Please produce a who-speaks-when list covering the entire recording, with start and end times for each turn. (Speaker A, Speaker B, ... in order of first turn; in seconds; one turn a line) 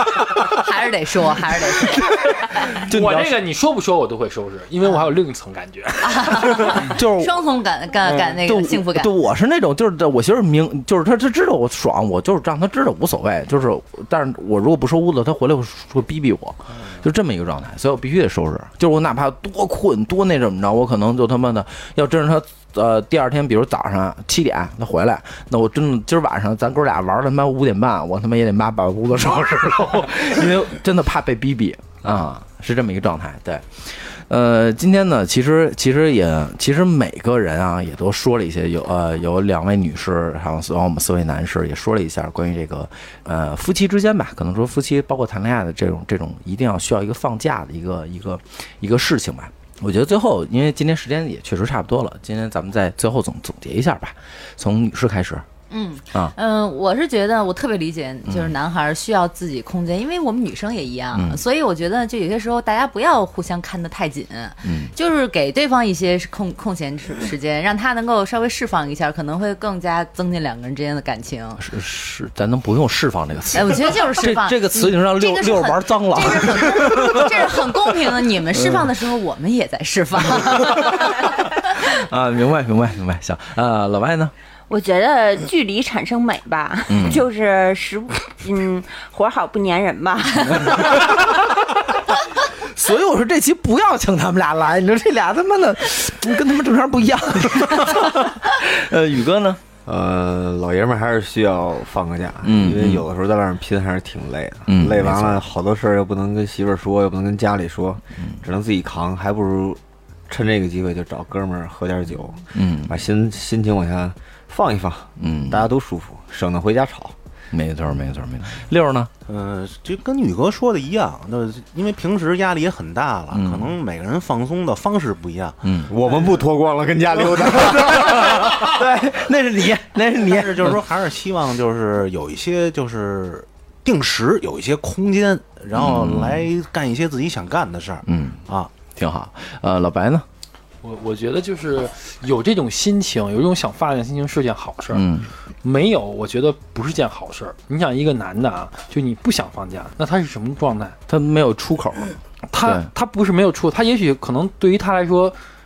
Speaker A: 0.4-2.8
Speaker B: 2.7-3.3
Speaker C: 2.7-6.8
Speaker A: 6.0-9.1
Speaker B: 6.5-7.3
Speaker C: 8.1-8.4
Speaker B: 8.2-55.4
Speaker A: 55.7-71.6
Speaker B: 58.3-58.5
Speaker B: 61.1-61.4
Speaker B: 64.6-64.9
Speaker B: 71.6-77.8
Speaker A: 73.5-81.5
Speaker B: 78.5-78.9
Speaker B: 80.3-84.3
Speaker D: 84.7-91.1
Speaker B: 86.9-87.2
Speaker B: 90.5-91.2
Speaker B: 92.6-99.6
Speaker E: 99.8-117.1
Speaker B: 102.4-103.0
Speaker B: 104.7-105.4
Speaker B: 112.5-113.0
Speaker B: 115.2-115.7
Speaker B: 117.5-119.1
Speaker F: 119.2-125.6
Speaker B: 123.3-123.7
Speaker B: 125.6-125.9
Speaker E: 125.9-128.8
Speaker B: 127.7-130.8
Speaker F: 130.2-138.7
Speaker B: 135.7-136.5
Speaker B: 138.1-140.2
Speaker C: 140.8-145.1
Speaker B: 144.9-145.3
Speaker C: 145.6-151.0
Speaker B: 151.1-152.9
Speaker C: 152.5-155.3